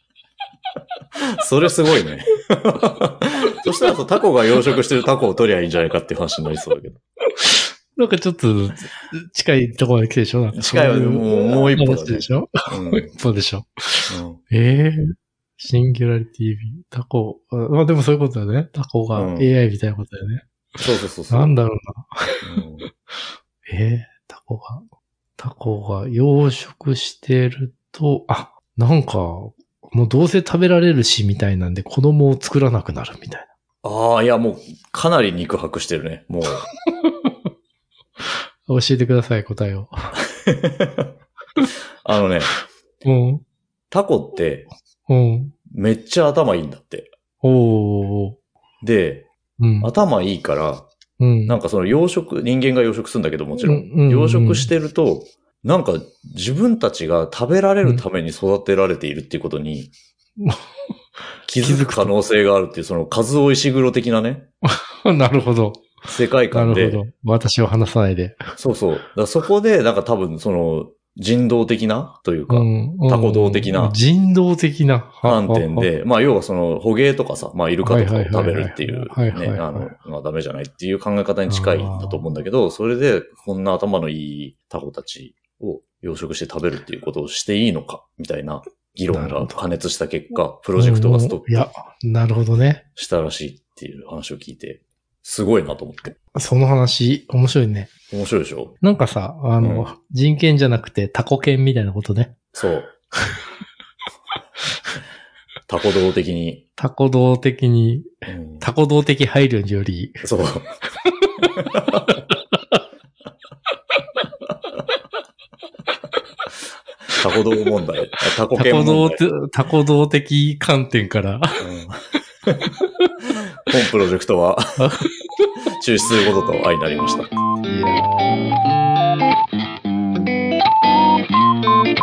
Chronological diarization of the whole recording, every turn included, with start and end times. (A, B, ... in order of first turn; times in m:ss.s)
0:01.4-0:07.0 A
0:07.4-0:15.0 B
0:10.5-0:13.1 A
0:14.1-0:14.4 A
0:15.6-0:20.4 B
0:19.2-0:19.5 A
0:20.8-0:21.6 A
0:21.3-0:22.4 B
0:22.4-0:22.9 A
0:23.7-0:24.8 B
0:25.4-0:33.5 B
0:33.8-0:36.7 A
0:37.0-0:37.3 B
0:38.7-0:39.9 B
0:40.4-0:41.1 A
0:42.0-0:42.5 A
0:43.0-0:43.4 B
0:43.9-0:44.7 A
0:45.1-0:45.6 B
0:45.7-0:47.1 A
0:47.4-0:48.4 B
0:48.8-0:49.3 A
0:49.6-0:49.9 B
0:49.8-0:50.9 A
0:51.2-0:51.6 B
0:51.5-0:59.9 A
0:53.6-0:54.7 B
1:01.5-1:04.5 A
1:01.6-1:02.1 B
1:04.6-1:06.0 B
1:06.0-1:07.0 A
1:06.5-1:08.5 B
1:08.6-1:14.0 A
1:12.5-1:15.9 B
1:15.2-1:31.7 A
1:17.8-1:20.0 B
1:21.5-1:22.3 B
1:29.1-1:29.6 B
1:30.8-1:32.8 B
1:33.0-1:36.2 A
1:36.3-1:37.9 B
1:38.1-1:38.8 A
1:38.8-1:42.4 B
1:39.6-1:39.9 A
1:42.5-1:42.9 A
1:45.7-1:46.6 A
1:46.8-1:48.1 B
1:48.3-1:48.7 A
1:48.6-1:50.2 B
1:50.2-1:50.8 A
1:51.7-1:52.0 A
1:52.3-1:52.6 B
1:57.2-1:59.2 A
1:58.5-2:01.6 B
2:01.6-2:02.7 A
2:03.6-2:04.6 A
2:04.8-2:05.1 B
2:05.7-2:07.4 A
2:07.7-2:08.8 B